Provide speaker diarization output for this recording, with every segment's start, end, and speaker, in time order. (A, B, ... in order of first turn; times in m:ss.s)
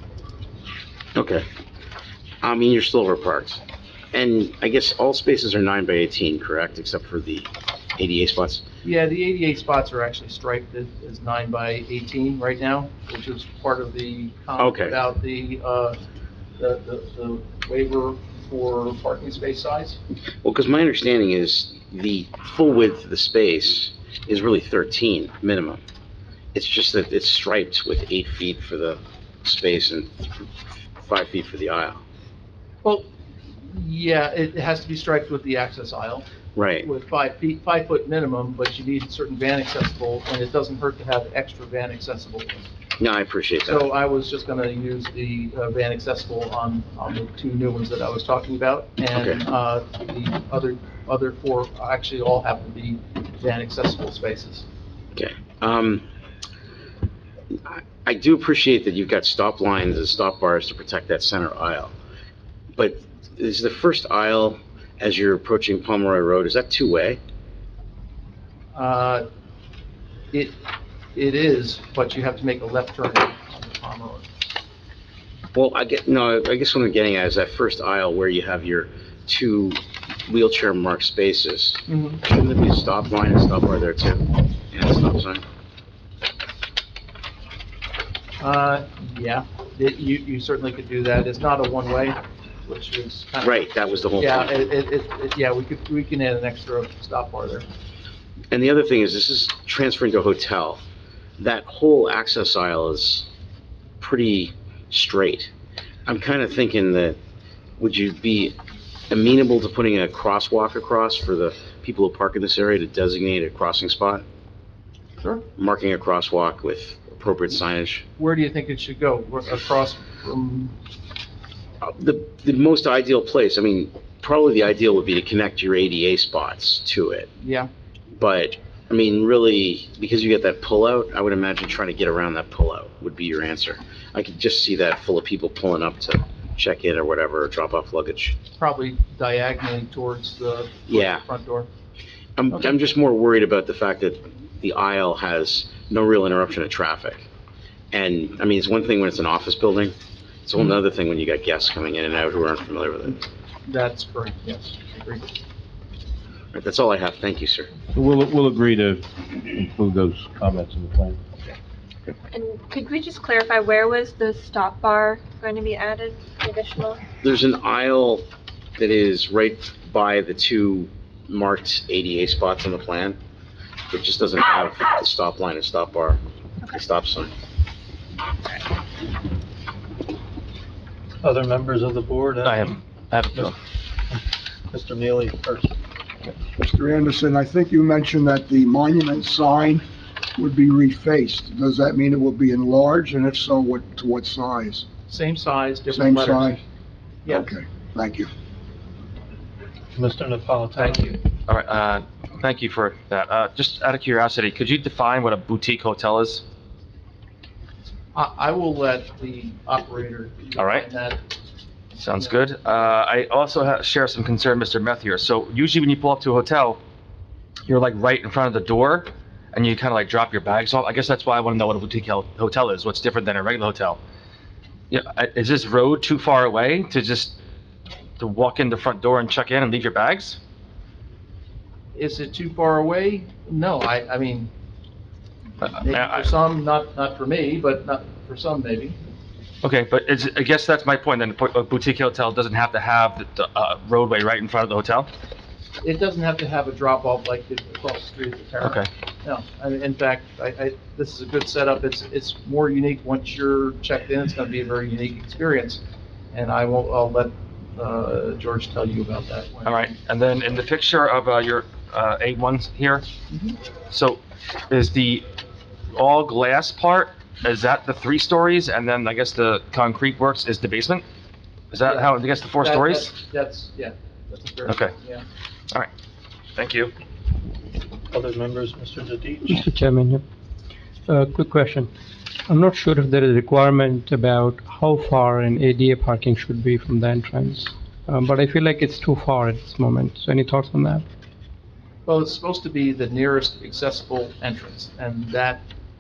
0:01.2-0:01.5 A
0:02.4-0:03.6 A
0:04.1-0:08.6 A
0:08.8-0:16.0 B
0:14.6-0:15.0 A
0:16.6-0:20.0 B
0:20.4-0:25.8 A
0:26.5-0:30.5 A
0:31.0-0:32.0 A
0:33.7-0:36.2 B
0:36.6-0:36.9 A
0:36.8-0:42.7 B
0:43.0-0:43.9 A
0:43.6-0:54.6 B
0:49.1-0:49.4 A
0:55.1-0:56.0 A
0:57.7-1:01.9 A
1:02.8-1:07.2 A
1:08.7-1:09.2 B
1:11.1-1:14.3 B
1:15.5-1:25.4 A
1:21.9-1:22.2 B
1:28.4-1:33.6 B
1:33.4-1:34.5 A
1:34.2-1:37.7 B
1:38.5-1:40.8 A
1:41.4-1:43.3 A
1:44.0-1:45.5 A
1:46.0-1:47.2 A
1:47.8-1:48.6 A
1:49.1-1:54.2 A
1:55.2-1:55.4 B
1:55.6-1:58.0 A
1:58.2-2:00.8 B
2:01.8-2:07.3 A
2:07.4-2:07.7 B
2:08.1-2:18.4 A
2:18.6-2:21.7 B
2:20.9-2:21.2 A
2:22.4-2:27.3 A
2:27.9-2:33.2 A
2:33.7-2:35.2 B
2:36.5-2:37.7 A
2:37.9-2:41.2 C
2:42.3-2:47.0 D
2:47.2-2:48.2 A
2:48.8-2:53.2 A
2:53.9-2:56.2 A
2:56.7-2:57.3 A
3:01.2-3:02.5 E
3:02.4-3:03.6 F
3:04.7-3:05.6 E
3:06.6-3:09.8 G
3:10.4-3:14.8 G
3:15.1-3:16.6 B
3:15.9-3:16.6 G
3:17.2-3:17.5 B
3:17.3-3:18.3 G
3:20.0-3:20.8 E
3:20.8-3:21.2 B
3:21.5-3:26.4 F
3:28.1-3:31.2 B
3:30.6-3:30.8 F
3:32.0-3:36.8 F
3:37.7-3:44.0 F
3:44.9-3:47.4 F
3:48.2-3:50.4 F
3:51.9-3:54.5 B
3:55.6-3:56.3 F
3:55.8-3:59.0 B
3:59.6-4:05.1 F
4:05.8-4:15.8 B
4:08.6-4:08.9 F
4:16.3-4:19.9 B
4:19.6-4:23.1 F
4:23.3-4:23.6 B
4:23.9-4:25.2 F
4:25.9-4:31.0 F
4:31.7-4:33.1 F
4:31.8-4:35.2 B
4:34.7-4:34.9 F
4:36.6-4:36.9 F
4:38.2-4:39.5 E
4:39.5-4:40.2 H
4:41.1-4:41.9 H
4:42.5-4:51.0 H
4:52.1-4:55.6 B